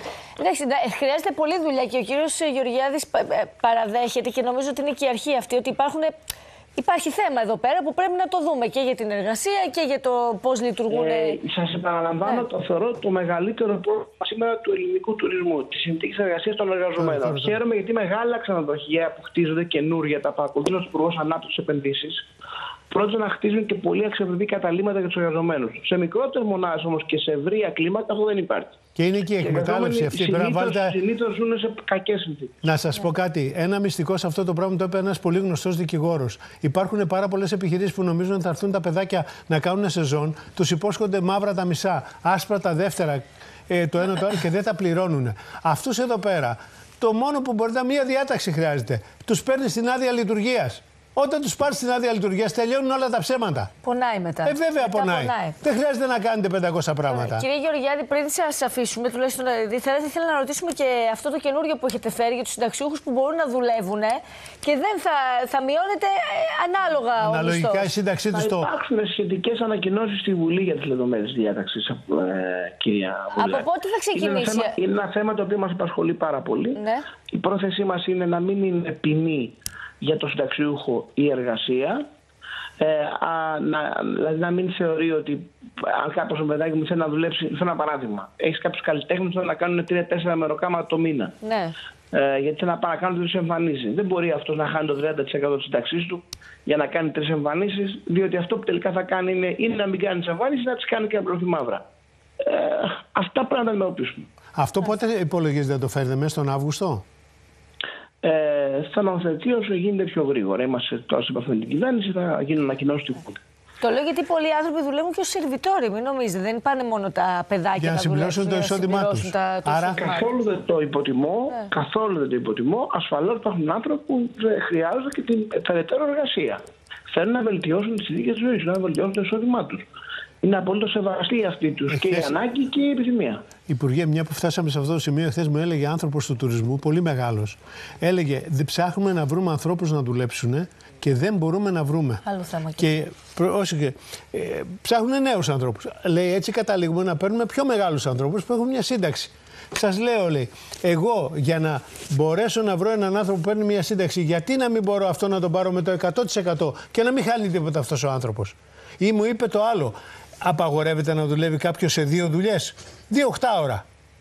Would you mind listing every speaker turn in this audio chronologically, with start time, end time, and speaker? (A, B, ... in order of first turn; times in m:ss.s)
0:00.4-0:06.1 A
0:06.8-0:11.4 A
0:10.9-0:22.2 B
0:17.0-0:17.6 C
0:22.9-0:28.8 B
0:29.0-0:31.0 C
0:29.4-0:32.6 B
0:32.6-0:53.7 C
0:53.8-0:55.6 A
0:54.4-0:57.4 C
0:57.1-1:07.9 A
1:07.2-1:08.7 C
1:08.3-1:22.0 B
1:13.3-1:14.7 A
1:16.8-1:17.1 A
1:22.8-1:31.4 B
1:31.4-1:31.8 A
1:32.1-1:41.8 B
1:42.4-1:44.3 B
1:44.6-1:47.0 C
1:48.2-1:53.4 B
1:53.8-2:00.3 A
1:57.8-2:00.1 C
2:00.0-2:09.9 B
2:10.4-2:13.4 B
2:11.9-2:12.4 C
2:13.7-2:22.2 C
2:22.2-2:23.0 A
2:22.8-2:43.8 C